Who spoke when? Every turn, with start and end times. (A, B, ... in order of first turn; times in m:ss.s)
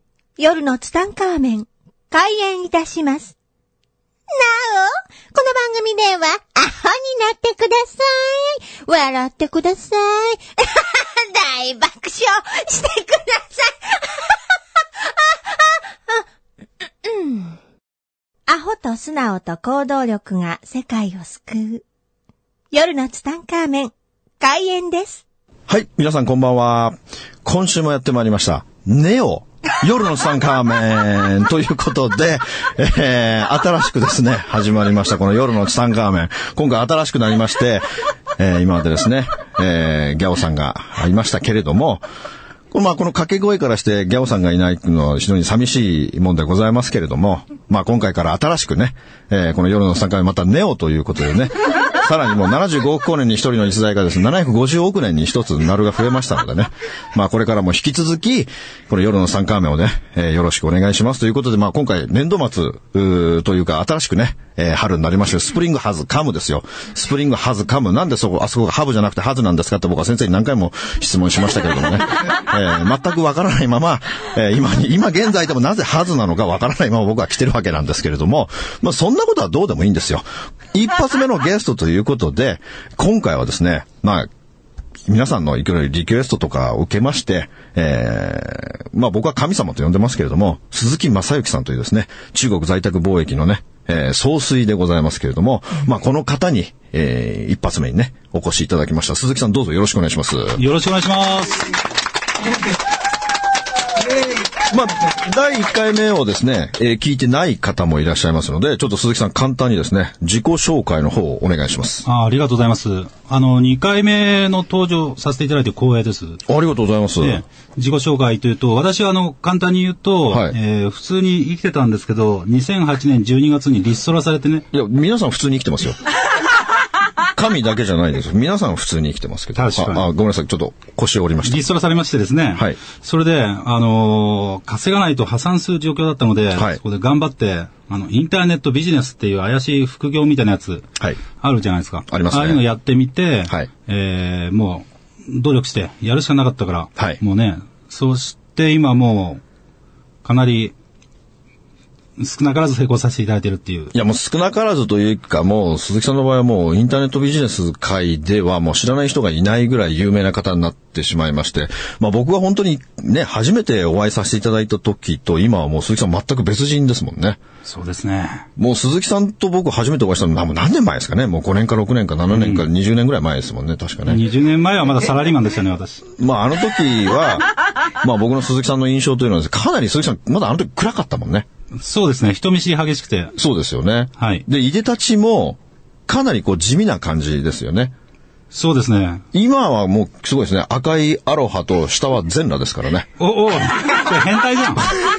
0:00.4-0:03.3 A
0:04.3-0:14.4 A
0:15.0-0:16.2 A
0:17.0-0:17.6 A
0:18.5-0:21.8 A
0:22.7-0:25.2 A
0:25.7-0:37.8 B
0:38.4-0:42.0 B
0:42.7-1:24.3 B
1:25.1-1:40.6 B
1:40.5-1:41.7 C
1:44.6-1:52.0 B
1:52.0-1:56.4 C
1:56.5-1:57.4 B
1:57.2-2:04.6 C
2:00.3-2:00.5 B
2:04.7-2:06.0 B
2:07.2-2:11.6 B
2:09.5-2:10.1 C
2:11.4-2:20.9 C
2:16.5-2:16.8 B
2:21.4-2:29.4 C
2:22.1-2:22.6 B
2:30.2-2:30.7 C
2:32.2-2:33.9 C
2:33.9-2:47.4 B
2:47.6-2:48.5 C
2:48.6-2:54.2 B
2:52.3-2:52.6 C
2:54.0-2:56.0 C
2:56.2-3:01.4 B
3:01.8-3:03.4 C
3:03.4-3:07.9 B
3:04.2-3:04.4 C
3:08.5-3:09.2 C
3:09.3-3:13.1 B
3:13.2-3:14.9 C